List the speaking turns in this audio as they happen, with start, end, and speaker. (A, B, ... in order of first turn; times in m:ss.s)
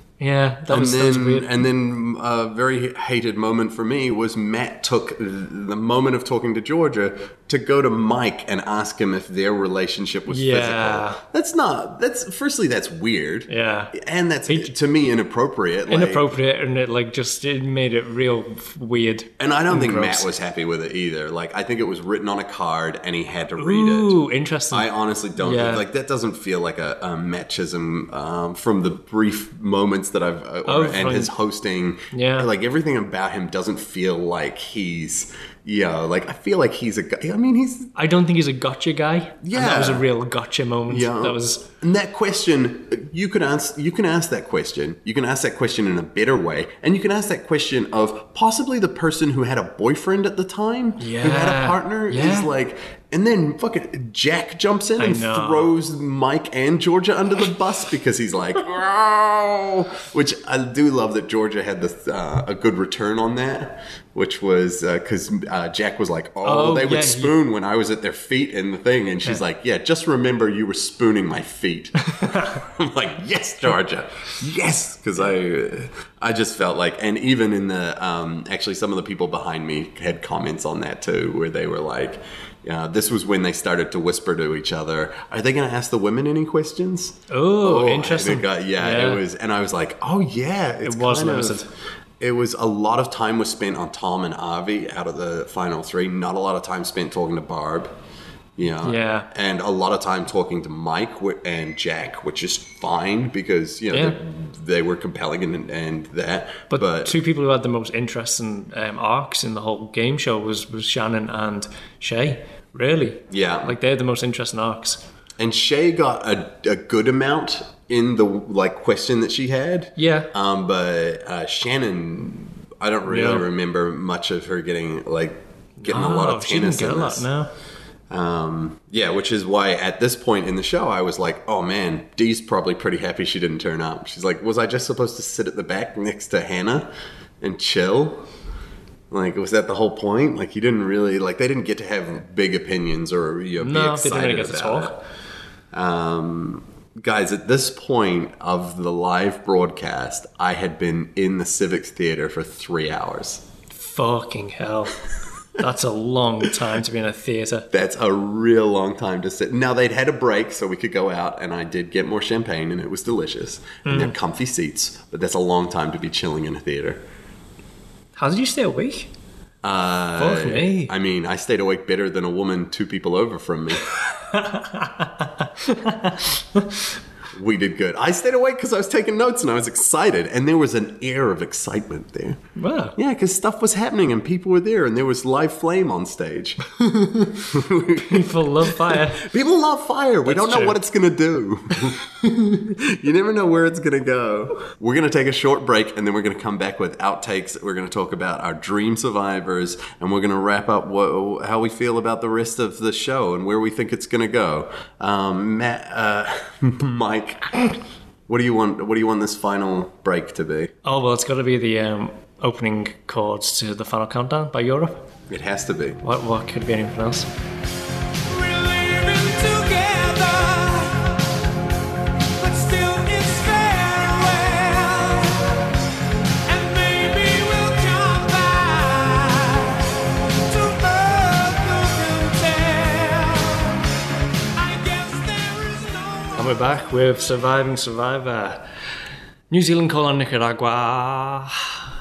0:00.2-0:01.5 A
0:00.7-0:16.3 B
0:10.3-0:11.2 A
0:13.5-0:13.9 A
0:15.9-0:20.3 A
0:19.4-0:24.2 B
0:23.6-0:25.8 A
0:24.7-0:37.9 B
0:30.6-0:31.3 A
0:32.1-0:32.5 A
0:37.9-0:41.7 A
0:39.4-0:40.0 B
0:40.9-1:31.6 B
0:51.0-0:52.5 A
0:55.0-0:55.7 A
1:06.4-1:07.4 A
1:12.1-1:12.6 A
1:27.3-1:29.2 A
1:30.8-1:31.7 A
1:32.2-1:37.9 B
1:38.6-1:47.2 B
1:38.8-1:39.3 A
1:43.9-1:44.2 A
1:46.7-1:55.0 A
1:53.3-1:53.8 B
1:55.4-2:07.2 B
2:00.0-2:00.3 A
2:03.1-2:03.5 A
2:05.8-2:07.5 A
2:08.1-2:16.9 B
2:17.4-2:18.2 B
2:19.1-2:24.9 B
2:23.6-2:25.0 A
2:25.7-2:33.4 B
2:33.7-2:35.0 A
2:35.6-2:37.7 A
2:37.7-2:47.0 B
2:43.8-2:44.1 A
2:48.2-2:49.1 A
2:49.6-2:53.8 B
2:50.2-2:50.9 A
2:54.2-2:56.6 A
2:57.3-3:02.4 B
3:02.6-3:03.0 A
3:03.0-3:30.7 B
3:08.0-3:09.2 A
3:10.2-3:10.8 A
3:30.8-3:35.0 A
3:35.3-3:36.0 B
3:36.0-3:37.3 A
3:38.3-3:41.3 C
3:42.4-3:45.7 C
3:46.4-3:53.8 C
3:54.5-3:56.8 C
3:56.3-3:58.6 A
3:59.5-4:01.8 A